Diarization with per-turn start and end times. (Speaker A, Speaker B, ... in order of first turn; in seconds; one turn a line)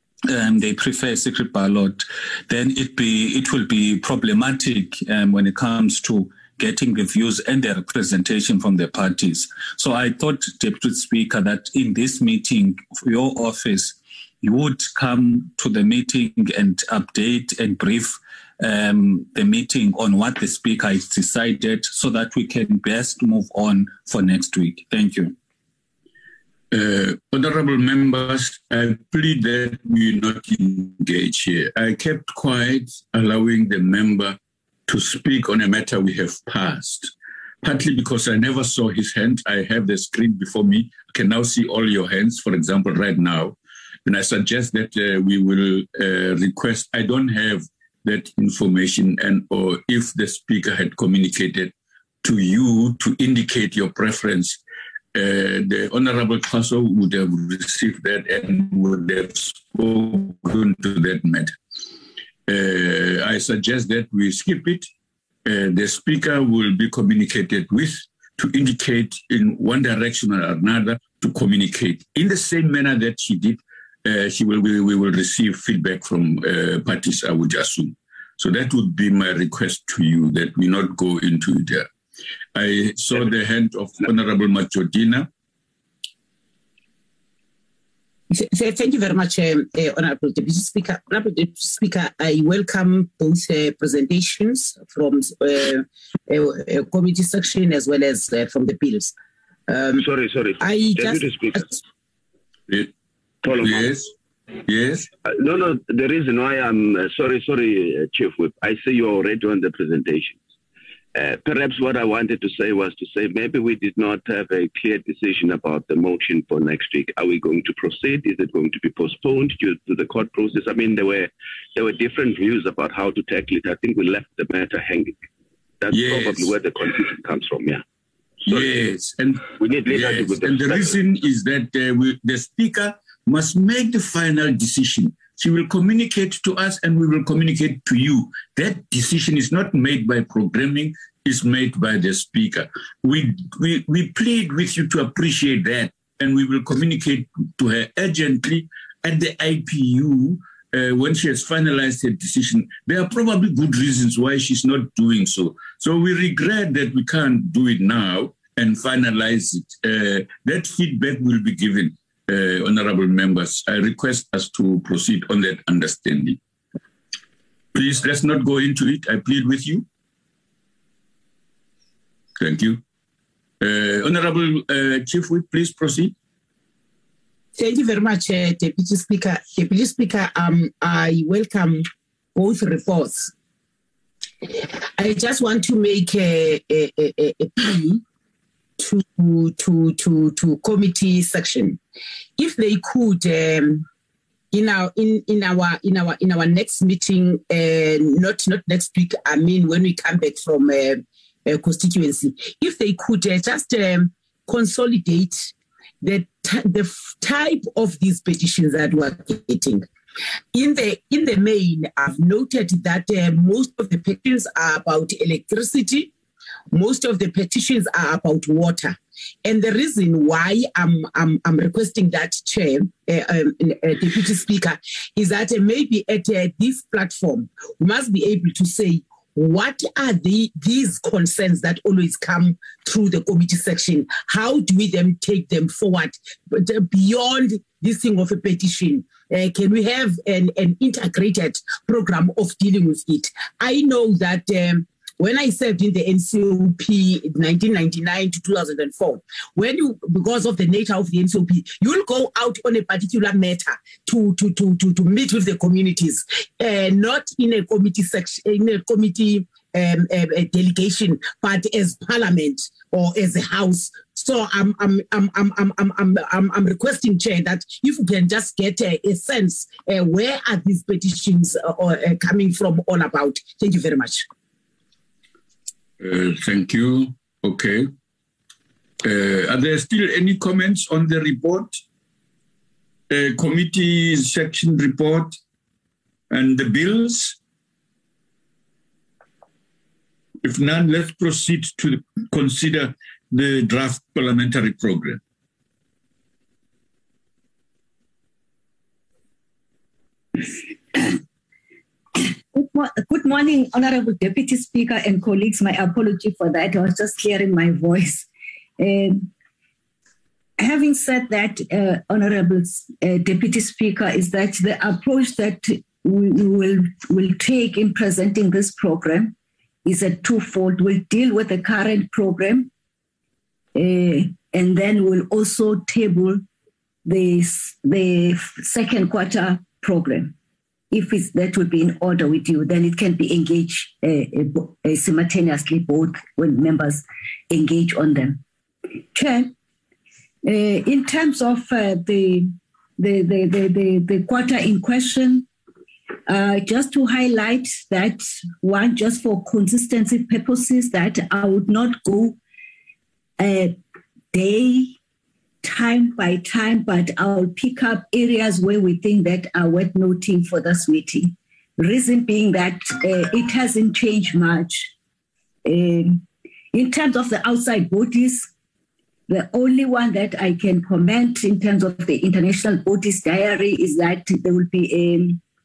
Speaker A: 0.3-25.3
Speaker B: 26.7-37.1
Speaker B: 37.6-54.6
Speaker B: 55.1-61.5
Speaker B: 62.5-64.9
Speaker B: 65.4-81.9
Speaker B: 82.5-85.3
Speaker C: 88.3-99.1
Speaker C: 99.7-100.0
Speaker D: 100.0-101.7
Speaker C: 100.6-101.7
Speaker D: 103.4-104.0
Speaker B: 103.6-104.1
Speaker B: 104.7-105.1
Speaker D: 105.2-110.4
Speaker D: 111.1-125.2
Speaker D: 125.8-127.8
Speaker B: 125.9-126.5
Speaker B: 128.5-166.4
Speaker D: 128.5-128.7
Speaker D: 129.5-131.0
Speaker B: 167.7-169.8
Speaker B: 172.4-172.8
Speaker B: 173.6-176.1
Speaker C: 177.6-181.8
Speaker C: 182.3-183.3
Speaker C: 184.4-188.0
Speaker C: 188.8-191.8
Speaker C: 192.4-193.8
Speaker C: 194.5-209.8
Speaker C: 210.5-216.1
Speaker C: 216.7-274.2
Speaker B: 276.0-277.9
Speaker B: 279.0-281.8
Speaker B: 283.1-285.4
Speaker B: 286.3-287.4
Speaker B: 290.4-295.2
Speaker E: 302.1-308.3
Speaker E: 308.8-309.3
Speaker E: 310.6-319.3
Speaker E: 319.8-322.7
Speaker E: 323.7-326.4
Speaker E: 327.0-330.3
Speaker E: 330.9-338.4
Speaker E: 339.1-339.5
Speaker E: 340.4-345.5
Speaker E: 346.3-352.4
Speaker E: 353.4-353.8
Speaker E: 354.3-354.9
Speaker E: 355.6-364.9
Speaker E: 365.6-368.5
Speaker E: 369.3-375.4